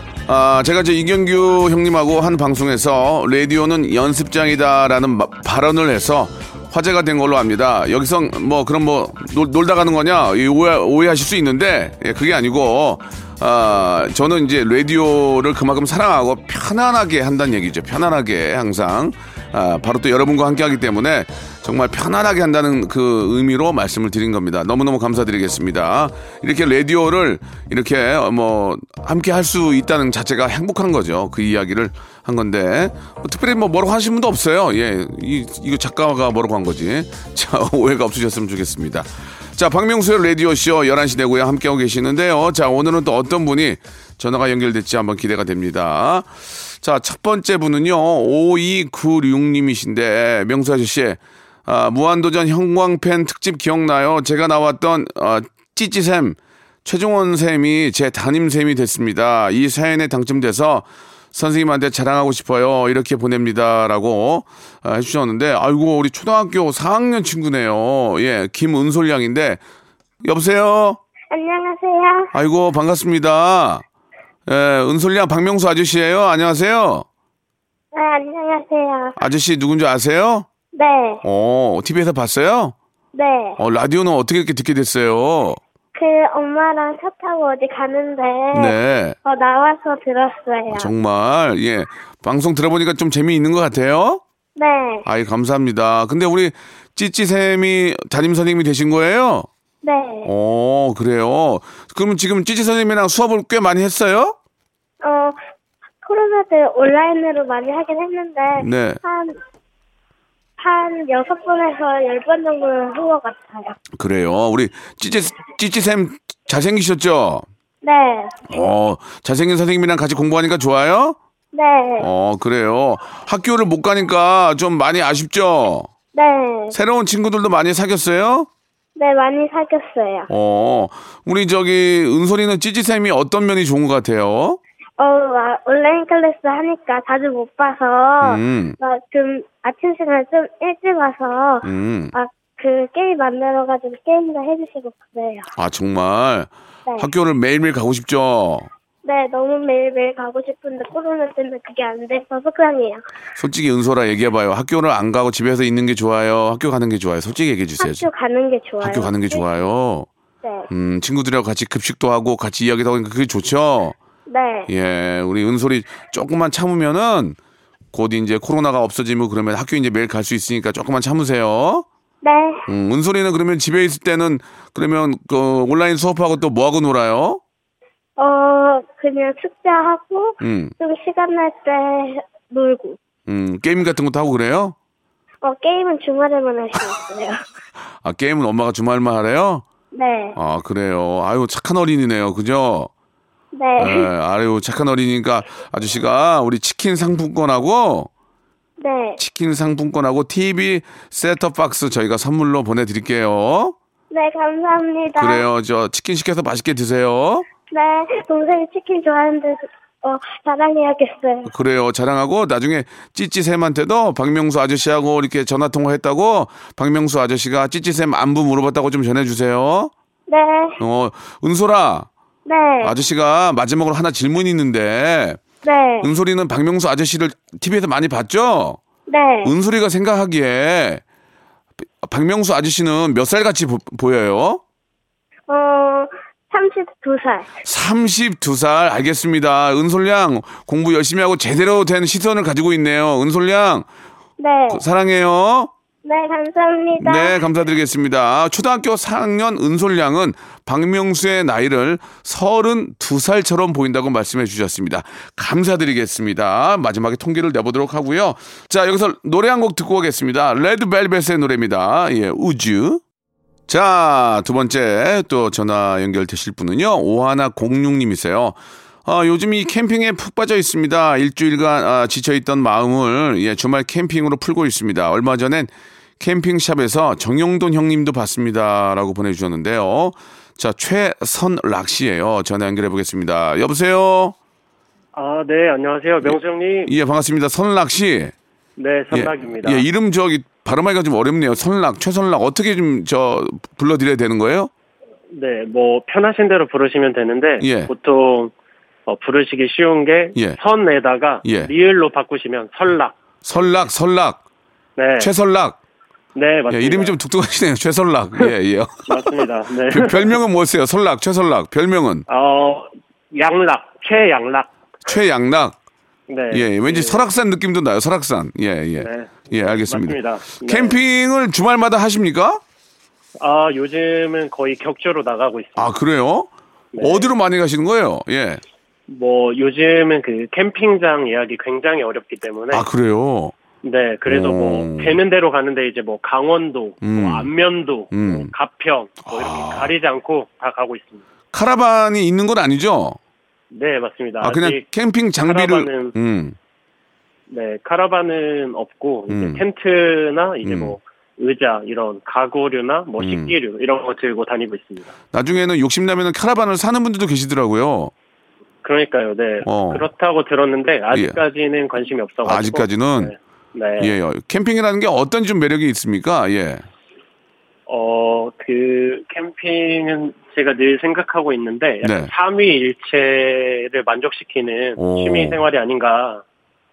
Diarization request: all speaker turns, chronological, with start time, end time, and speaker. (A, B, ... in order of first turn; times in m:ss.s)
0:00.2-1:09.6 A
1:10.2-1:11.0 A
1:11.3-1:12.3 B
1:12.3-1:13.8 A
1:14.5-1:17.0 A
1:17.9-1:19.2 B
1:19.2-1:20.5 A
1:20.7-1:21.2 B
1:21.2-1:22.7 A
1:23.1-1:23.6 B
1:23.6-1:25.6 A
1:25.9-1:28.7 B
1:28.5-1:29.2 A
1:29.2-1:30.9 B
1:30.7-1:34.2 A
1:34.6-1:35.0 B
1:35.0-1:39.5 A
1:39.8-1:40.3 B
1:40.2-1:44.4 A
1:45.0-1:45.4 B
1:46.0-1:49.4 B
1:48.5-1:49.0 A
1:50.6-1:53.8 B
1:53.9-1:57.4 A
1:57.8-1:58.6 B
1:58.5-2:01.2 A
2:01.5-2:02.1 B
2:02.0-2:05.9 A
2:06.1-2:06.7 B
2:06.7-2:08.5 A
2:09.0-2:10.3 B
2:10.3-2:14.6 A
2:15.0-2:25.5 B
2:18.2-2:18.8 A
2:21.6-2:22.1 A
2:25.6-2:28.7 A
2:29.0-2:33.0 B
2:33.4-2:38.1 A
2:37.8-2:39.4 B
2:38.8-2:40.1 A
2:40.4-2:40.7 B
2:40.7-2:44.0 A
2:44.3-2:44.7 B
2:44.7-2:47.4 A
2:47.9-2:51.8 A
2:52.2-2:52.6 B
2:52.7-2:57.4 A
2:58.2-3:03.0 B
3:00.4-3:00.7 A
3:03.3-3:04.8 A
3:05.4-3:07.4 B
3:08.0-3:09.6 A
3:09.9-3:10.4 B
3:10.4-3:12.9 A
3:13.5-3:14.1 B
3:13.8-3:18.1 A
3:18.8-3:19.2 B
3:19.2-3:23.7 A
3:24.1-3:25.4 B
3:25.2-3:27.4 A
3:27.7-3:31.5 B
3:31.4-3:39.9 A
3:40.3-3:40.8 B
3:40.8-3:42.1 A
3:42.4-3:42.9 B
3:42.8-3:45.4 A
3:45.6-3:46.1 B
3:46.0-3:48.8 A
3:49.1-3:49.5 B
3:49.4-3:51.0 A
3:52.0-3:54.6 A
3:55.5-3:57.5 B
3:57.6-4:03.9 A
4:04.4-4:04.8 B
4:04.7-4:05.7 A
4:06.0-4:07.3 B
4:07.0-4:23.0 A
4:23.7-4:44.3 A
4:45.1-4:46.9 C
4:46.2-4:48.3 A
4:48.8-4:49.8 C
4:49.1-4:54.7 A
4:55.3-4:58.5 C
4:57.6-4:57.9 A
4:59.0-5:03.1 C
5:01.4-5:01.7 A
5:03.4-5:04.4 A
5:05.0-5:05.3 C
5:05.2-5:05.8 A
5:06.3-5:07.2 C
5:06.7-5:09.3 A
5:09.0-5:10.4 C
5:09.8-5:12.2 A
5:12.3-5:14.7 C
5:15.0-5:15.8 A
5:16.3-5:17.3 C
5:16.5-5:22.6 A
5:19.0-5:21.0 C
5:23.4-5:25.9 C
5:25.8-5:28.6 A
5:26.9-5:27.3 C
5:29.1-5:32.8 C
5:32.7-5:33.5 A
5:33.8-5:41.2 C
5:34.3-5:35.2 A
5:37.0-5:37.5 A
5:38.1-5:38.5 A
5:39.2-5:39.9 A
5:41.5-5:43.2 A
5:43.7-5:44.8 C
5:44.4-5:46.6 A
5:45.4-5:46.1 C
5:47.5-5:55.1 C
5:49.3-5:49.6 A
5:50.6-5:51.0 A
5:53.2-5:53.5 A
5:55.3-5:58.1 A
5:58.8-6:04.1 C
5:59.6-6:00.1 A
6:01.1-6:01.4 A
6:02.4-6:03.3 A
6:04.0-6:06.8 A
6:07.9-6:16.4 C
6:12.0-6:12.3 A
6:15.0-6:15.6 A